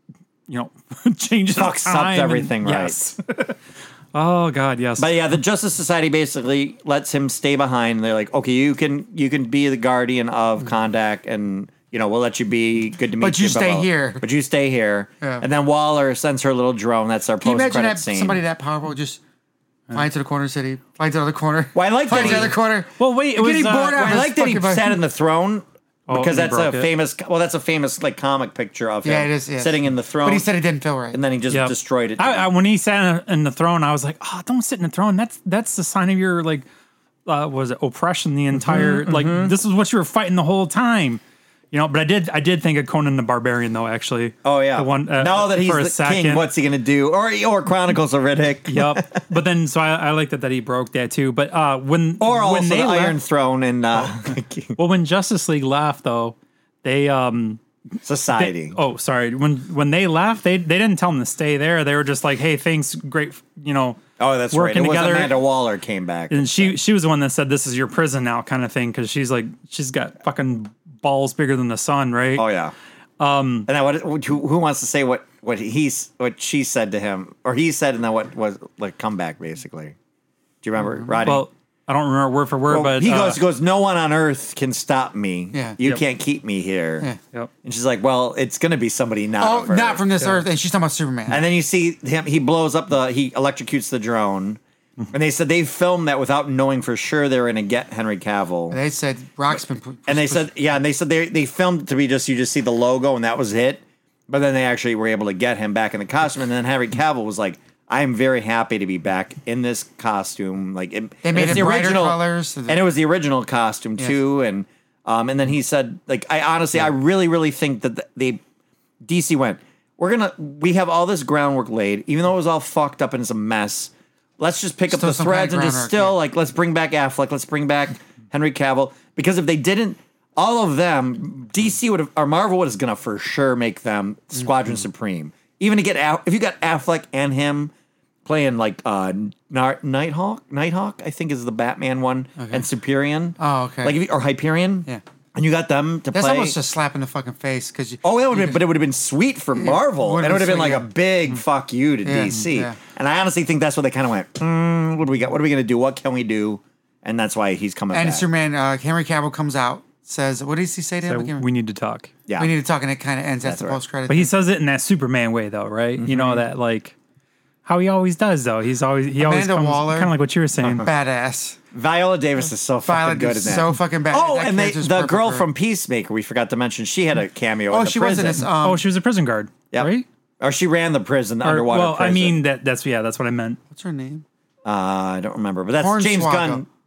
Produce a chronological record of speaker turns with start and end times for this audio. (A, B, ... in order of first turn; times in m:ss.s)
0:00.5-0:03.6 A
0:01.5-0:03.0 B
0:04.1-0:05.1 A
0:05.0-0:18.4 B
0:13.2-0:14.2 C
0:17.4-0:19.2 C
0:19.9-0:25.0 C
0:21.7-0:22.6 B
0:22.1-0:24.1 A
0:23.8-0:30.5 B
0:26.1-0:26.9 A
0:29.0-0:31.2 C
0:31.1-0:32.5 B
0:31.5-0:36.6 A
0:37.2-0:41.2 A
0:38.5-0:39.6 B
0:41.7-0:46.4 A
0:44.4-0:49.2 B
0:48.7-0:53.2 A
0:52.2-0:54.8 B
0:54.8-0:57.6 A
0:58.0-0:58.8 B
0:58.3-1:05.4 A
1:04.2-1:06.8 B
1:06.3-1:12.4 A
1:12.4-1:12.7 B
1:13.2-1:13.7 A
1:13.7-1:20.0 B
1:20.6-1:21.5 B
1:21.2-1:23.4 A
1:22.7-1:27.1 B
1:27.6-1:30.2 B
1:29.4-1:31.4 C
1:31.3-1:34.6 B
1:35.1-1:38.8 B
1:38.7-1:40.5 C
1:40.1-1:58.4 B
1:51.2-1:52.8 C
1:59.0-2:17.7 B
2:04.9-2:06.2 C
2:18.2-2:26.6 B
2:22.4-2:22.6 C
2:23.4-2:24.0 C
2:26.1-2:28.7 C
2:28.0-2:38.3 B
2:29.6-2:30.9 C
2:32.0-2:32.8 C
2:37.9-2:41.4 C
2:41.0-2:42.1 A
2:42.3-2:42.5 B
2:42.4-2:44.3 C
2:43.4-2:43.8 B
2:44.1-2:47.0 A
2:46.0-2:46.4 B
2:47.6-2:50.9 A
2:49.2-2:50.1 C
2:50.6-2:50.9 B
2:50.8-2:51.6 C
2:51.7-2:58.5 B
2:52.8-2:55.5 C
2:57.7-2:58.8 C
2:58.6-3:00.0 A
2:59.7-3:02.4 B
3:01.4-3:03.6 A
3:03.7-3:04.2 C
3:04.6-3:06.6 B
3:05.8-3:06.6 C